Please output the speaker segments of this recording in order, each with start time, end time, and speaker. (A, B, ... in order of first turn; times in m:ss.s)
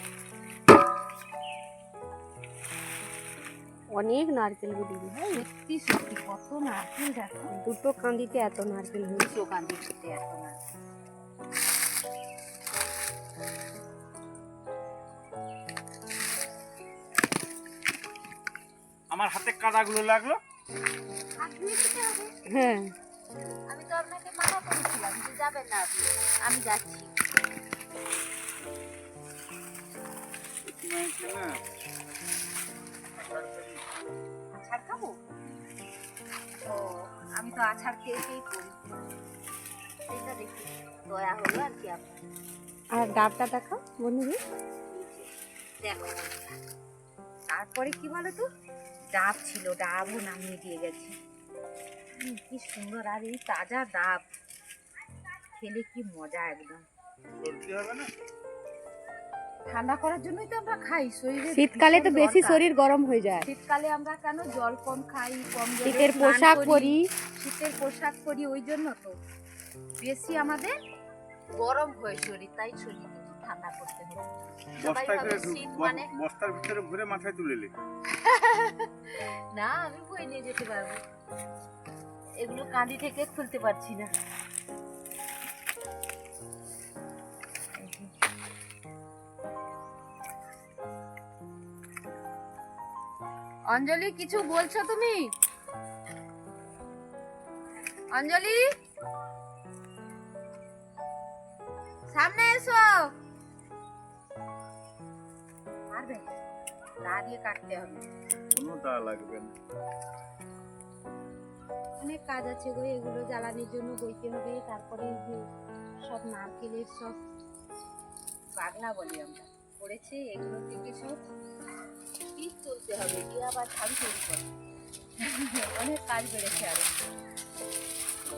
0:03.9-0:05.4 A
0:05.3-0:07.6 B
0:07.5-0:09.3 A
0:09.1-0:10.6 B
0:19.1-0:20.4 C
0:21.4-0:22.3 B
0:22.5-0:22.9 A
0:23.7-0:27.1 B
0:30.6-0:31.6 C
0:33.2-0:33.8 C
0:34.5-0:35.2 B
0:36.6-0:38.8 B
0:40.1-0:42.2 B
0:42.9-0:44.4 A
0:44.9-0:45.3 B
0:45.8-0:46.5 B
0:47.5-0:48.4 B
0:49.1-0:51.2 B
0:52.2-0:54.2 B
0:55.5-0:56.8 B
0:57.4-0:58.1 C
0:59.7-1:02.6 B
1:01.5-1:03.5 A
1:03.4-1:09.2 B
1:05.8-1:07.0 A
1:10.0-1:10.7 B
1:11.6-1:16.1 B
1:14.8-1:17.7 C
1:18.1-1:21.0 B
1:22.4-1:24.1 B
1:27.8-1:28.1 B
1:33.7-1:35.3 B
1:38.1-1:38.6 B
1:42.1-1:43.1 B
1:45.9-1:46.3 B
1:47.0-1:48.0 B
1:48.5-1:49.5 C
1:52.0-1:55.4 B
1:56.1-1:57.2 B
1:58.6-2:01.2 B
2:02.4-2:04.5 B
2:05.2-2:06.9 B